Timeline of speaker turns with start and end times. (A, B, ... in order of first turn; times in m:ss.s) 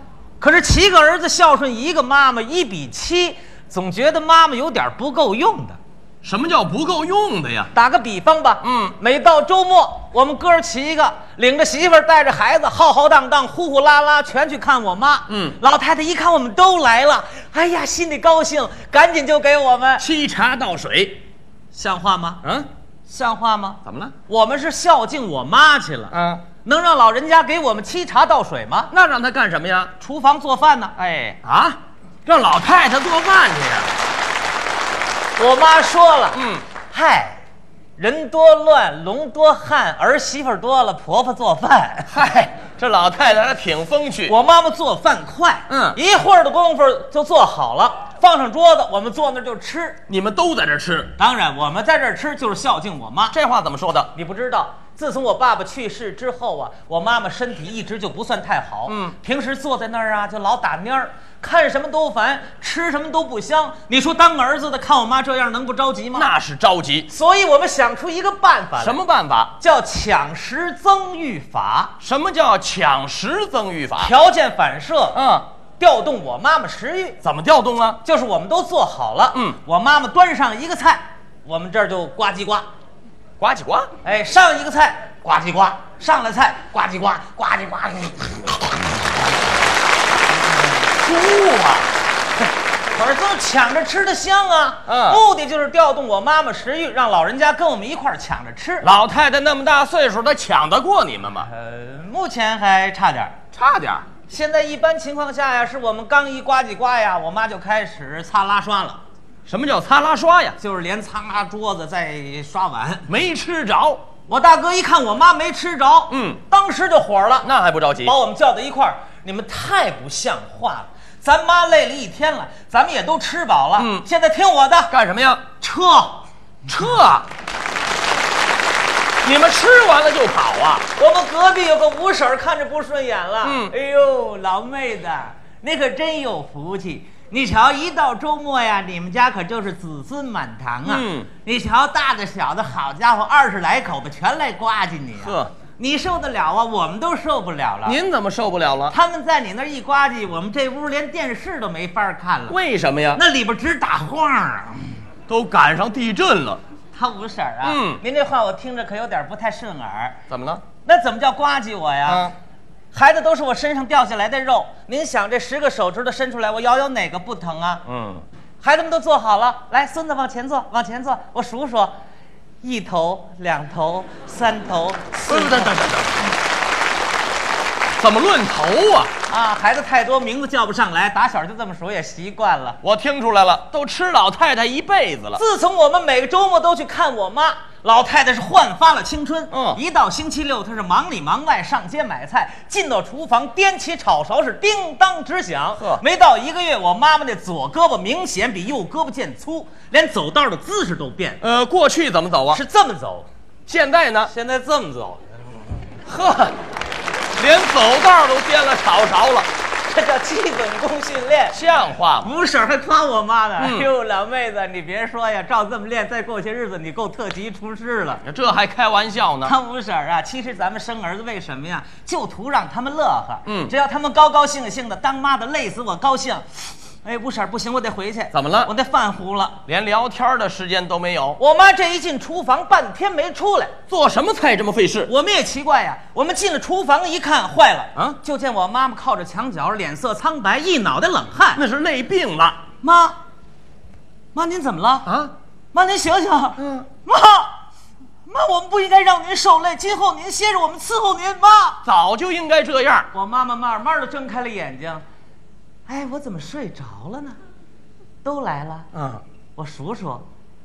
0:00.4-0:05.8 A
0:06.2-0:07.7 B
0:07.7-0:20.0 A
0:08.6-0:08.9 B
0:15.3-0:15.6 B
0:20.0-0:21.2 B
0:21.7-0:22.5 A
0:23.1-0:28.9 A
0:23.8-0:24.1 B
0:26.1-0:26.4 B
0:28.9-0:29.9 B
0:30.0-0:31.0 A
0:31.0-0:34.0 B
0:35.4-0:37.4 A
0:36.3-0:36.6 B
0:38.0-0:42.1 A
0:42.1-0:44.3 B
0:44.3-0:50.0 A
0:45.7-0:46.0 B
0:50.1-0:51.1 B
0:51.2-0:53.4 A
0:53.3-0:54.1 B
0:54.1-1:06.3 A
0:58.9-0:59.2 B
1:06.1-1:07.1 B
1:07.1-1:09.0 A
1:08.8-1:09.5 B
1:09.6-1:11.9 A
1:12.0-1:14.1 B
1:14.0-1:15.2 A
1:15.1-1:15.5 B
1:15.8-1:17.2 A
1:17.2-1:18.0 B
1:18.0-1:22.7 A
1:23.4-1:23.9 B
1:24.0-1:28.8 A
1:31.0-1:31.9 B
1:32.9-1:38.9 A
1:34.9-1:35.2 B
1:38.8-1:41.5 B
1:41.4-1:43.4 A
1:43.5-1:44.1 B
1:44.3-1:49.0 A
1:49.5-1:50.6 B
1:50.6-1:53.1 A
1:53.1-1:54.0 B
1:54.3-1:57.5 A
1:56.1-1:56.4 B
1:57.4-1:58.2 B
1:58.0-2:04.9 A
2:03.8-2:04.0 B
2:04.9-2:05.4 B
2:05.6-2:06.2 A
2:06.7-2:07.3 B
2:09.2-2:10.8 B
2:11.0-2:28.0 A
2:13.4-2:13.7 B
2:20.9-2:21.3 B
2:25.2-2:25.5 B
2:27.8-2:28.9 B
2:28.9-2:32.6 A
2:32.5-2:33.2 B
2:33.2-2:35.0 A
2:35.3-2:36.6 B
2:36.9-2:40.2 A
2:37.6-2:38.0 B
2:40.3-2:40.6 B
2:40.8-2:42.3 A
2:42.1-2:42.3 B
2:42.9-2:47.8 A
2:47.9-2:48.2 B
2:48.6-2:51.9 A
2:52.6-2:56.2 A
2:55.3-2:56.3 B
2:58.0-2:59.1 B
2:59.3-3:02.8 A
3:02.8-3:05.4 B
3:05.4-3:21.4 A
3:09.5-3:09.8 B
3:21.4-3:22.6 B
3:22.5-3:23.3 A
3:23.7-3:24.3 B
3:24.3-3:25.3 A
3:26.1-3:26.6 B
3:27.4-3:29.5 B
3:29.8-3:31.6 A
3:31.5-3:32.3 B
3:32.2-3:38.2 A
3:33.6-3:33.9 B
3:38.2-3:39.6 B
3:39.4-3:49.6 A
3:43.5-3:43.7 B
3:48.3-3:48.7 B
3:49.7-3:51.4 B
3:51.4-3:53.8 A
3:53.9-3:55.1 B
3:55.1-4:01.6 A
4:01.6-4:02.6 B
4:02.8-4:03.2 A
4:04.4-4:05.1 A
4:05.1-4:05.3 B
4:05.7-4:07.5 A
4:06.6-4:06.9 B
4:08.2-4:11.8 A
4:11.8-4:13.1 B
4:13.1-4:15.0 A
4:15.9-4:17.4 A
4:18.2-4:18.9 A
4:18.9-4:19.2 B
4:19.6-4:20.2 A